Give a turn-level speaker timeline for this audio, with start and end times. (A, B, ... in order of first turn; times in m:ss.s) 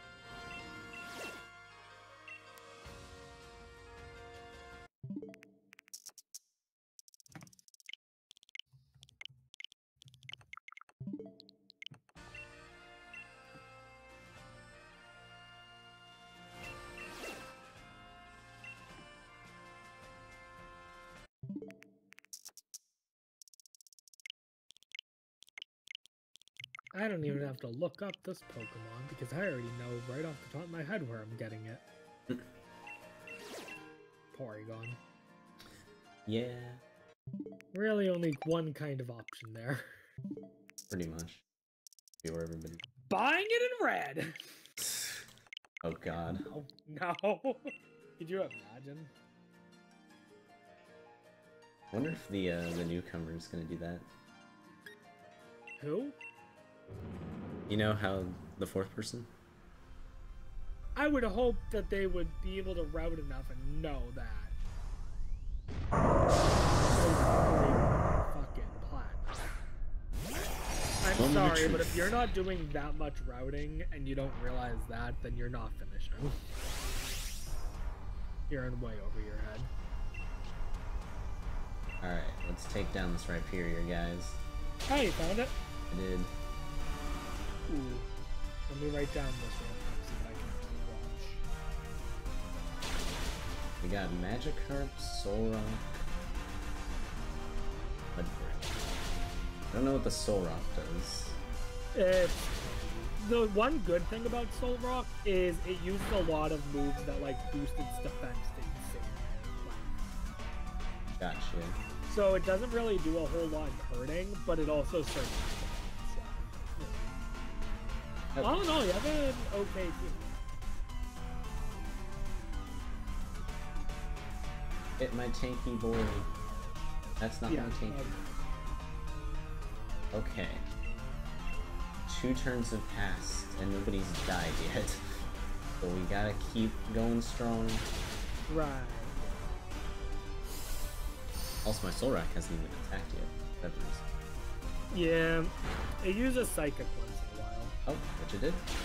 0:26.9-0:31.8 A
0:34.3-0:35.0 A
0:36.2-0:36.8 B
0:37.7-0:39.9 A
0:40.9-0:41.4 B
0:42.2-0:42.8 B
0:43.1-0:44.6 A
0:44.8-0:45.2 B
0:45.8-0:46.4 B
0:46.4-0:49.1 A
0:51.9-0:54.1 B
0:55.8-0:56.2 A
0:57.7-0:59.3 B
1:01.0-1:04.5 A
1:06.8-1:09.5 A
1:10.3-1:10.6 B
1:11.0-1:16.4 A
1:11.1-1:12.1 B
1:18.5-1:19.7 A
1:22.0-1:24.4 B
1:24.9-1:25.5 A
1:25.9-1:26.3 B
1:27.7-1:28.1 A
1:28.7-1:31.4 A
1:33.8-1:36.0 B
1:38.1-1:38.8 B
1:39.7-1:41.4 B
1:41.9-1:50.2 A
1:51.2-1:51.8 B
1:52.1-1:57.0 A
1:58.3-1:58.7 B
1:58.4-2:00.4 A
2:05.0-2:06.3 B
2:07.2-2:08.2 B
2:07.5-2:08.4 A
2:10.1-2:10.6 B
2:12.1-2:15.0 B
2:15.8-2:17.9 B
2:18.5-2:19.5 A
2:21.6-2:24.0 B
2:24.9-2:27.7 A
2:27.8-2:28.6 B